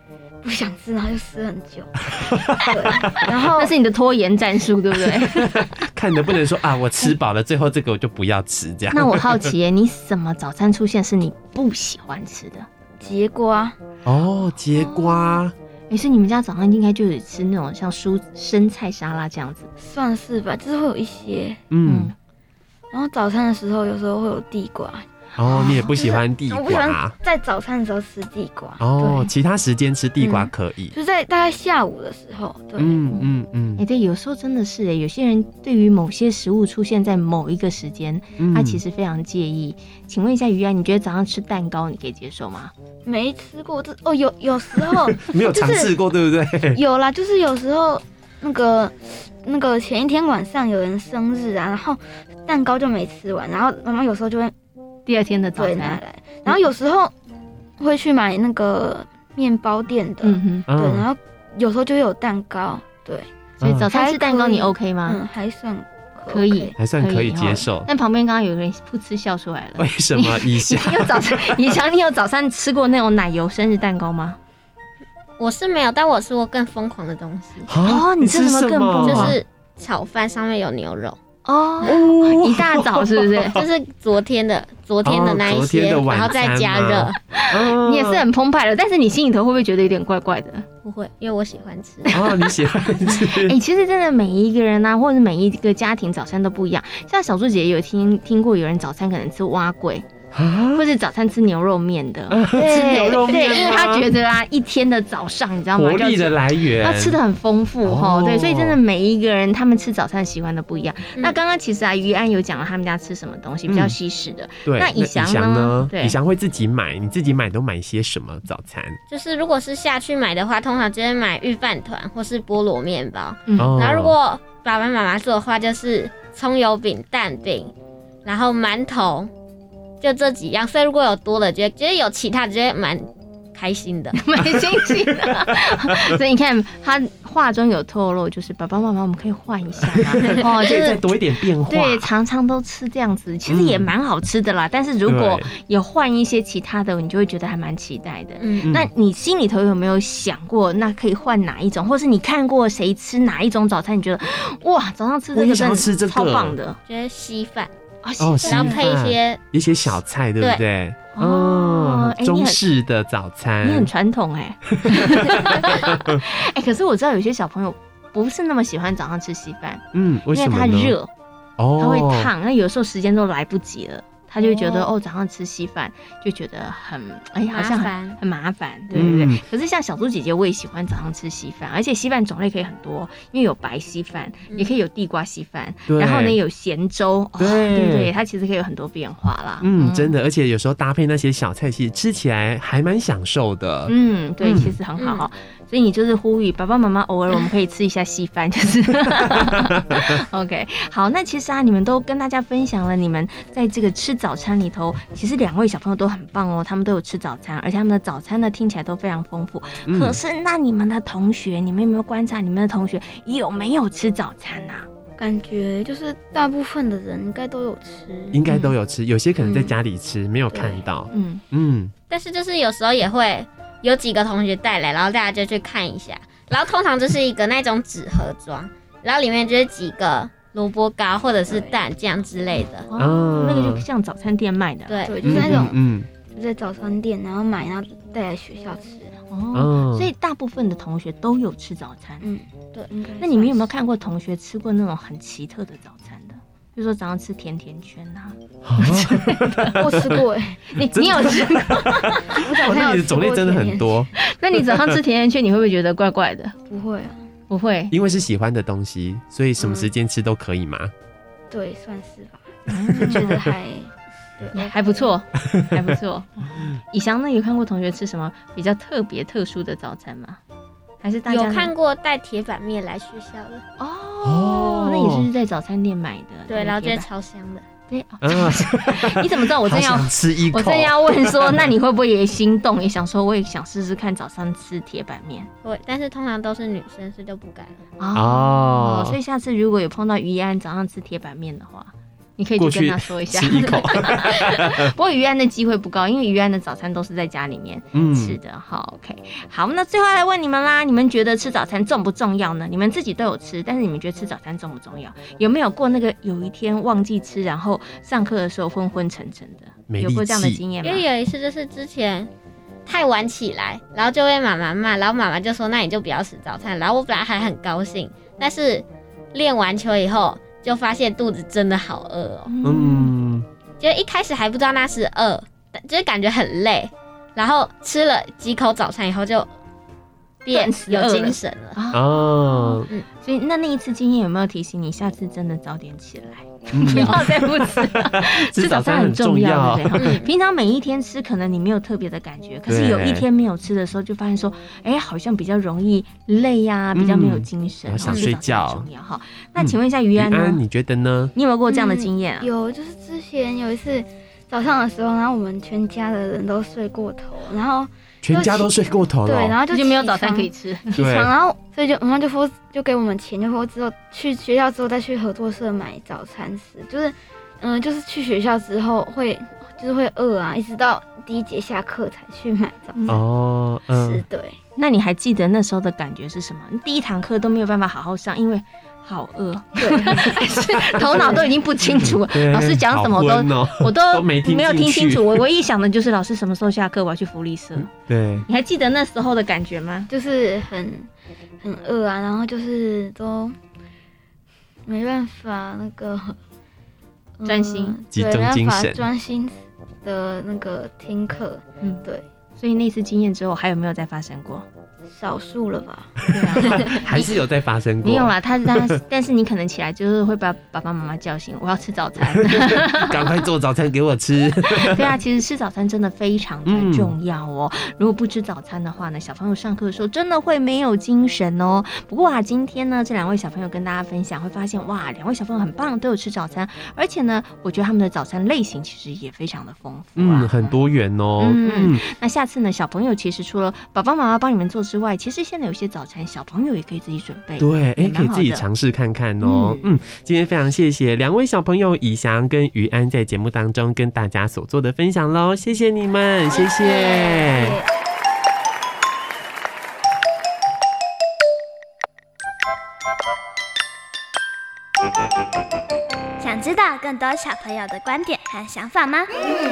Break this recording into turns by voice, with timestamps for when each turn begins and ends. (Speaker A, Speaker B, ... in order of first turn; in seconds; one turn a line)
Speaker A: 0.4-3.7
Speaker B: 2.3-3.3
Speaker C: 3.5-5.7
Speaker B: 5.0-9.5
Speaker C: 8.9-12.7
Speaker A: 13.0-13.8
Speaker B: 14.0-15.5
Speaker A: 14.7-15.4
Speaker C: 15.9-19.7
Speaker A: 19.8-21.6
Speaker B: 21.7-22.1
Speaker C: 21.8-22.1
Speaker A: 22.9-29.3
Speaker B: 25.4-27.1
Speaker B: 28.8-30.9
Speaker C: 30.2-30.5
Speaker A: 30.9-33.1
Speaker B: 32.8-33.8
Speaker C: 33.8-42.7
Speaker B: 38.4-38.8
Speaker A: 43.0-45.9
Speaker B: 45.0-46.8
Speaker A: 46.7-54.5
Speaker C: 55.0-56.6
Speaker A: 55.5-57.1
Speaker A: 57.8-63.3
Speaker C: 60.2-60.7
Speaker B: 60.7-61.0
Speaker B: 63.6-63.8
Speaker C: 63.6-65.2
Speaker A: 63.8-66.7
Speaker C: 66.3-74.4
Speaker B: 66.8-67.9
Speaker B: 69.8-71.5
Speaker D: 75.4-77.7
Speaker B: 77.7-79.4
Speaker C: 77.8-79.4
Speaker D: 79.0-81.2
Speaker C: 81.4-83.6
Speaker B: 81.8-83.6
Speaker D: 83.5-87.2
Speaker B: 85.0-88.3
Speaker C: 87.3-90.7
Speaker D: 90.8-92.5
Speaker B: 92.1-93.6
Speaker C: 93.0-100.1
Speaker B: 100.3-100.8
Speaker C: 100.7-116.2
Speaker B: 102.3-104.1
Speaker B: 105.7-107.2
Speaker B: 107.8-108.8
Speaker B: 113.7-114.0
Speaker B: 114.6-119.0
Speaker D: 119.1-127.7
Speaker C: 123.5-123.7
Speaker B: 123.5-124.2
Speaker D: 128.2-129.3
Speaker D: 130.0-134.2
Speaker C: 134.2-141.1
Speaker B: 135.0-136.2
Speaker B: 140.0-142.1
Speaker C: 141.7-156.8
Speaker B: 143.5-143.9
Speaker B: 145.0-145.5
Speaker D: 148.4-148.7
Speaker B: 148.6-148.9
Speaker B: 155.3-156.6
Speaker D: 156.9-157.7
Speaker C: 158.0-158.8
Speaker B: 158.2-163.9
Speaker D: 158.4-159.4
Speaker C: 161.1-162.6
Speaker C: 163.6-171.1
Speaker B: 164.7-166.2
Speaker B: 169.9-171.0
Speaker B: 171.6-172.3
Speaker C: 171.8-190.1
Speaker D: 174.4-174.9
Speaker D: 177.5-178.2
Speaker B: 178.9-179.4
Speaker D: 184.5-184.7
Speaker B: 185.9-186.4
Speaker B: 187.4-188.1
Speaker B: 189.6-194.8
Speaker C: 193.9-214.9
Speaker D: 194.9-195.2
Speaker B: 199.5-200.1
Speaker B: 209.8-210.2
Speaker A: 215.2-218.4
Speaker B: 218.3-221.9
Speaker C: 218.5-218.7
Speaker A: 219.4-219.8
Speaker A: 220.5-220.8
Speaker C: 221.1-221.4
Speaker D: 222.1-232.9
Speaker C: 232.9-235.0
Speaker B: 233.0-233.8
Speaker D: 234.9-235.4
Speaker A: 235.0-235.8
Speaker B: 235.2-236.1
Speaker A: 236.3-239.2
Speaker C: 239.3-242.3
Speaker B: 239.5-240.1
Speaker A: 242.2-243.7
Speaker C: 243.2-249.7
Speaker B: 248.6-250.2
Speaker A: 249.8-250.7
Speaker C: 250.7-252.4
Speaker B: 250.9-254.1
Speaker A: 252.3-254.1
Speaker C: 254.2-256.5
Speaker A: 256.6-257.2
Speaker C: 257.5-257.9
Speaker B: 257.9-260.9
Speaker C: 259.6-259.9
Speaker A: 261.5-265.1
Speaker C: 262.7-263.5
Speaker C: 264.5-270.4
Speaker C: 271.0-271.7
Speaker D: 271.2-273.6
Speaker C: 273.8-277.1
Speaker B: 274.2-275.3
Speaker D: 276.5-277.6
Speaker C: 277.9-285.5
Speaker B: 278.2-281.7
Speaker D: 285.6-287.8
Speaker C: 288.0-311.1
Speaker B: 288.1-289.2
Speaker B: 292.6-294.9
Speaker B: 297.9-298.4
Speaker B: 309.9-310.6
Speaker D: 310.8-312.3
Speaker D: 312.9-322.5
Speaker C: 322.5-323.1
Speaker B: 322.6-323.5
Speaker D: 323.8-329.5
Speaker D: 330.4-331.8
Speaker C: 330.5-350.6
Speaker B: 331.9-332.9
Speaker B: 336.7-340.2
Speaker D: 339.9-340.3
Speaker B: 342.6-343.3
Speaker B: 346.9-348.9
Speaker D: 348.0-348.3
Speaker B: 349.6-351.3
Speaker C: 351.3-352.5
Speaker A: 351.7-373.2
Speaker B: 358.2-359.6
Speaker C: 359.7-361.1
Speaker B: 360.9-361.3
Speaker C: 372.9-373.2
Speaker B: 373.1-374.2
Speaker A: 373.9-374.6
Speaker C: 374.8-387.9
Speaker A: 379.8-381.5
Speaker B: 381.9-385.4
Speaker B: 387.8-388.5
Speaker C: 388.5-390.1
Speaker A: 390.1-391.1
Speaker A: 391.6-393.6
Speaker A: 394.9-396.4
Speaker A: 397.4-402.2
Speaker C: 397.4-398.0
Speaker B: 398.1-399.0
Speaker C: 402.6-404.6
Speaker A: 405.1-406.9
Speaker C: 406.3-407.4
Speaker B: 406.5-409.0
Speaker C: 408.0-413.4
Speaker B: 412.4-415.2
Speaker C: 414.7-430.7
Speaker B: 416.6-417.1
Speaker B: 430.1-432.0
Speaker C: 431.4-438.6
Speaker B: 437.6-447.8
Speaker C: 439.4-439.9
Speaker D: 447.1-447.5
Speaker E: 456.4-459.2